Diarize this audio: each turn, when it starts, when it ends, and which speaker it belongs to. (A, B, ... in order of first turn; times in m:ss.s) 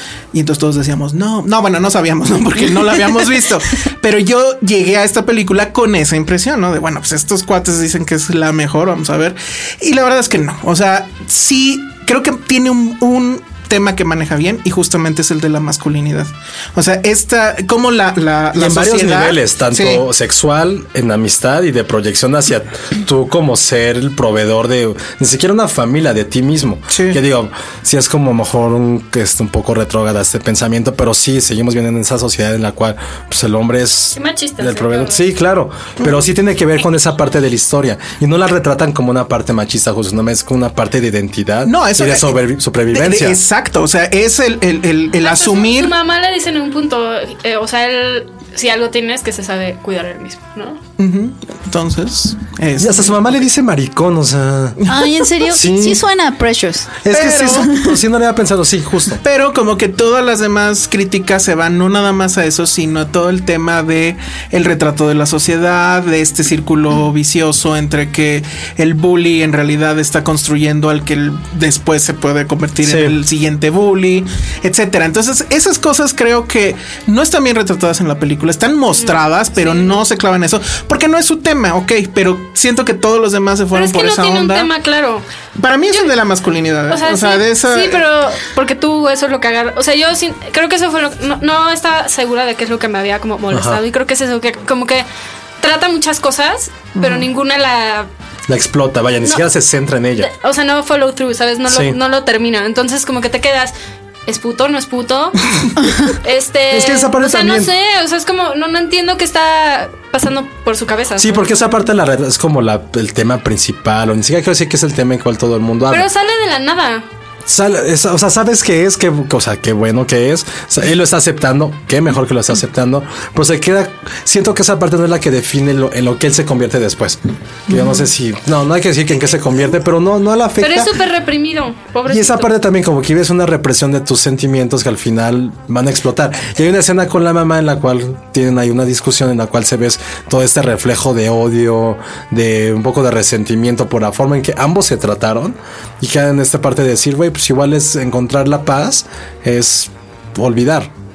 0:00.3-0:20.0 A
0:18.6-0:43.4 B
0:26.9-0:27.2 A
0:34.1-0:35.2 C
0:41.6-0:45.9 A
0:45.2-0:50.8 C
0:51.0-0:53.4 A
0:52.8-0:54.8 B
0:54.8-0:55.1 A
0:54.9-0:57.0 D
0:55.4-0:56.0 B
0:57.0-0:59.2 B
0:57.1-0:57.7 A
0:57.6-0:58.0 D
0:59.2-1:24.7 A
1:12.8-1:13.2 B
1:19.0-1:20.0 C
1:23.7-1:25.2 C
1:25.6-1:28.0 A
1:26.9-1:35.1 C
1:33.5-1:33.8 B
1:35.6-1:38.1 C
1:38.5-1:40.3 B
1:40.2-1:43.7 C
1:41.7-1:42.0 B
1:44.3-1:45.4 C
1:46.1-1:51.4 C
1:46.7-1:47.7 B
1:51.2-1:56.1 B
1:55.9-1:57.0 C
1:57.5-2:10.9 B
2:10.6-2:12.5 C
2:12.1-2:30.9 B